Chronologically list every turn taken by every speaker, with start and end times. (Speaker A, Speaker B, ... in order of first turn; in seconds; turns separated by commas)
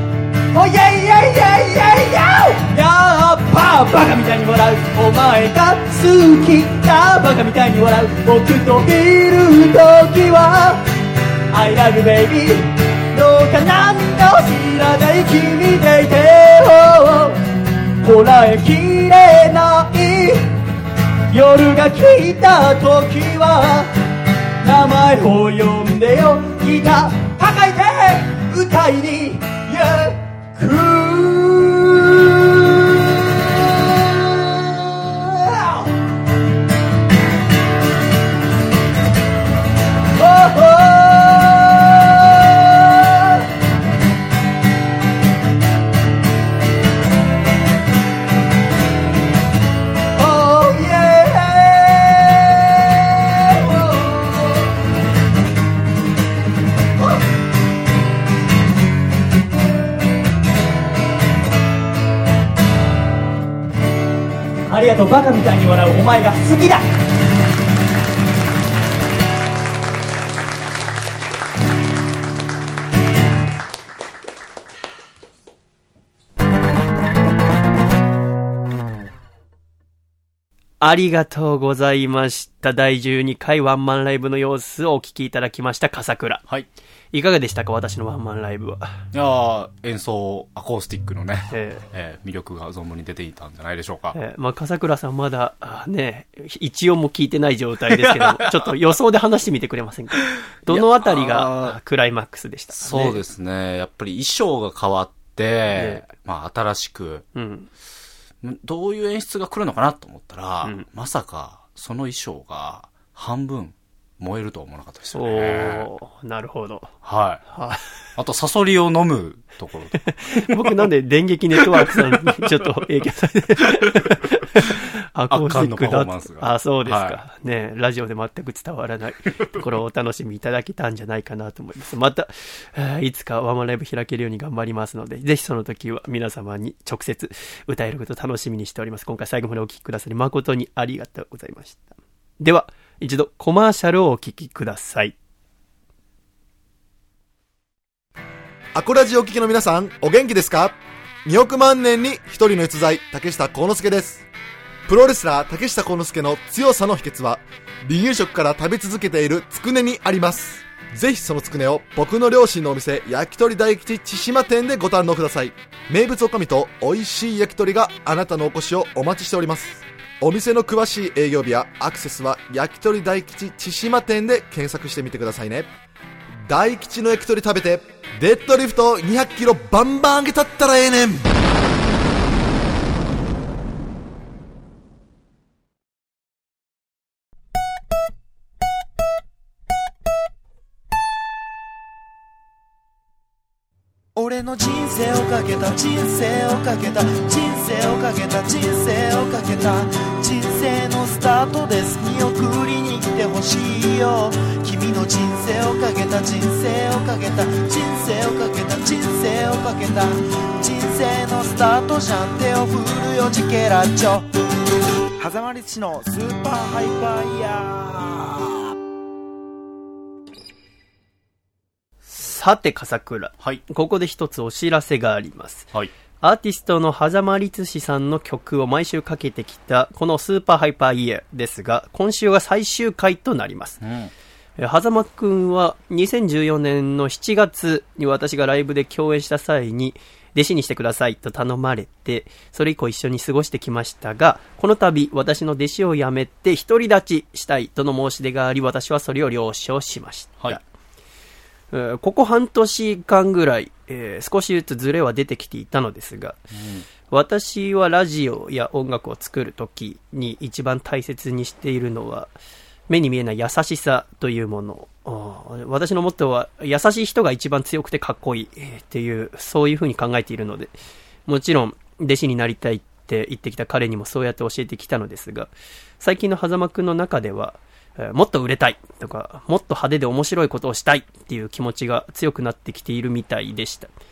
Speaker A: 0.5-10.8, Speaker A: 11.5-17.4, Speaker A: 18.0-20.5, Speaker A: 21.3-23.9, Speaker A: 24.6-35.9, Speaker A: 40.1-43.5, Speaker A: 50.1-54.8, Speaker A: 64.7-66.8, Speaker B: 80.8-86.4, Speaker B: 87.1-89.0, Speaker C: 89.1-94.2, Speaker B: 91.5-91.8, Speaker B: 94.1-103.2, Speaker C: 97.9-98.7, Speaker C: 100.7-101.8, Speaker C: 102.7-107.3, Speaker B: 105.7-106.0, Speaker B: 107.3-107.7, Speaker C: 108.4-115.9, Speaker B: 115.1-116.9, Speaker C: 117.0-117.4, Speaker B: 117.5-117.8, Speaker C: 118.2-120.8, Speaker B: 120.3-145.1, Speaker C: 121.5-122.8, Speaker C: 123.6-124.6, Speaker C: 125.3-127.2, Speaker D: 148.7-154.2, Speaker D: 154.9-175.7, Speaker D: 176.4-181.2, Speaker E: 194.2-214.3, Speaker E: 215.2-218.5, Speaker B: 222.1-233.8, Speaker C: 233.8-234.1, Speaker B: 234.6-250.6, Speaker B: 251.7-256.4, Speaker C: 256.5-256.9, Speaker B: 257.1-262.3, Speaker B: 262.9-270.7, Speaker B: 271.3-283.9